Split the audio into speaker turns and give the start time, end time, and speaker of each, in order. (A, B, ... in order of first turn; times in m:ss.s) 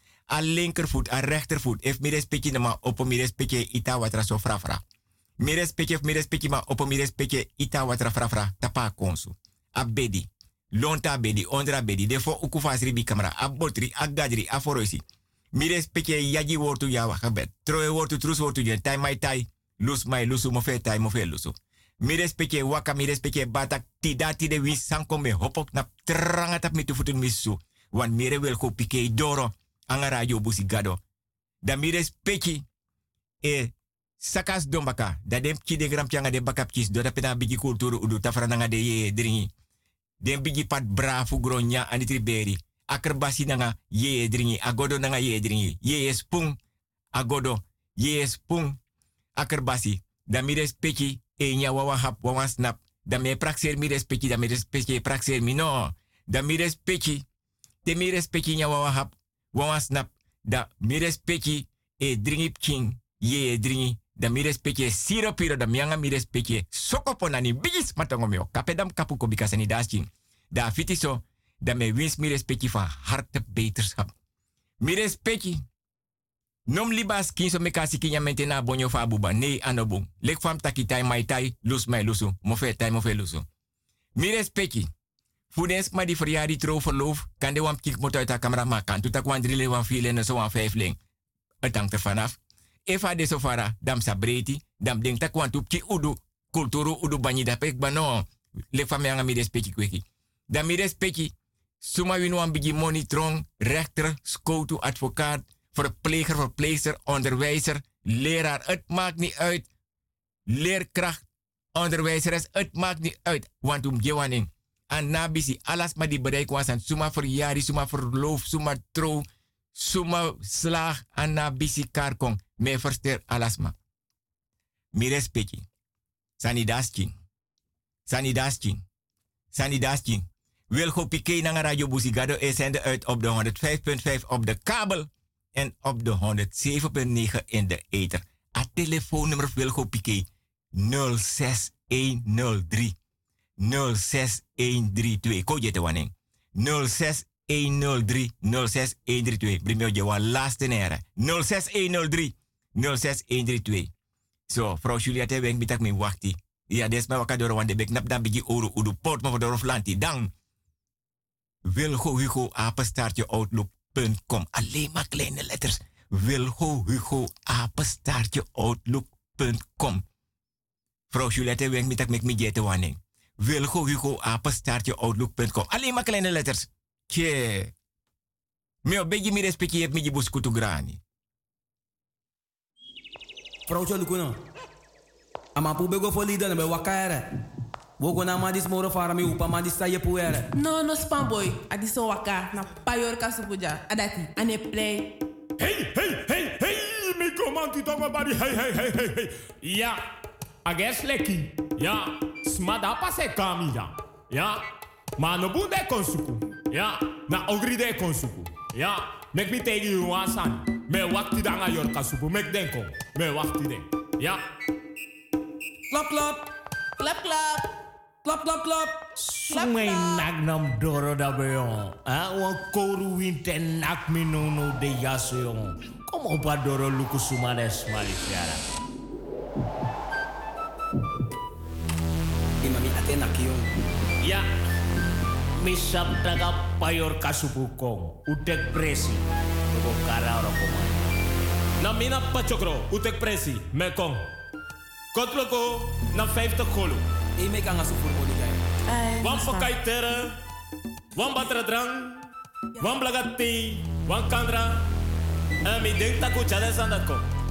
0:00.3-0:04.8 A
0:05.4-0:15.0 A
0:15.5-0:31.0 A
0:31.6-0:32.6 A
0:33.4-0:39.5 A
0:40.2-0:46.6 A
0:47.1-0:48.8 A
0:49.4-0:57.2 A
0:57.8-1:14.1 A
1:14.8-1:15.6 A
1:16.7-1:23.4 A
1:24.2-1:24.9 A
1:25.5-1:31.0 A
1:31.6-1:49.6 A
1:50.5-1:51.2 A
1:51.7-2:03.7 A
2:04.9-2:05.6 A
2:06.4-2:07.1 A
2:08.1-2:08.8 A
2:09.5-2:22.9 A
2:23.6-2:33.9 A
2:34.5-2:40.3 A
2:41.6-2:50.0 A
2:51.1-2:57.7 A
2:58.8-3:01.0 A
3:03.7-3:04.4 B
3:05.6-3:07.3 B
3:08.0-3:10.5 B
3:10.5-3:15.1 C
3:15.6-3:20.0 D
3:20.6-3:24.6 D
3:25.2-3:34.4 D
3:37.0-3:37.6 C
3:38.3-3:38.6 E
3:39.1-3:48.6 E
3:39.5-3:40.2 C
3:52.6-3:53.7 B
3:55.6-4:01.0 E
4:01.8-4:04.2 D
4:05.1-4:07.0 D
4:07.4-4:08.6 B
4:08.9-4:09.8 C
4:09.2-4:10.3 D
4:11.1-4:12.2 D
4:12.8-4:14.8 D
4:15.6-4:17.2 D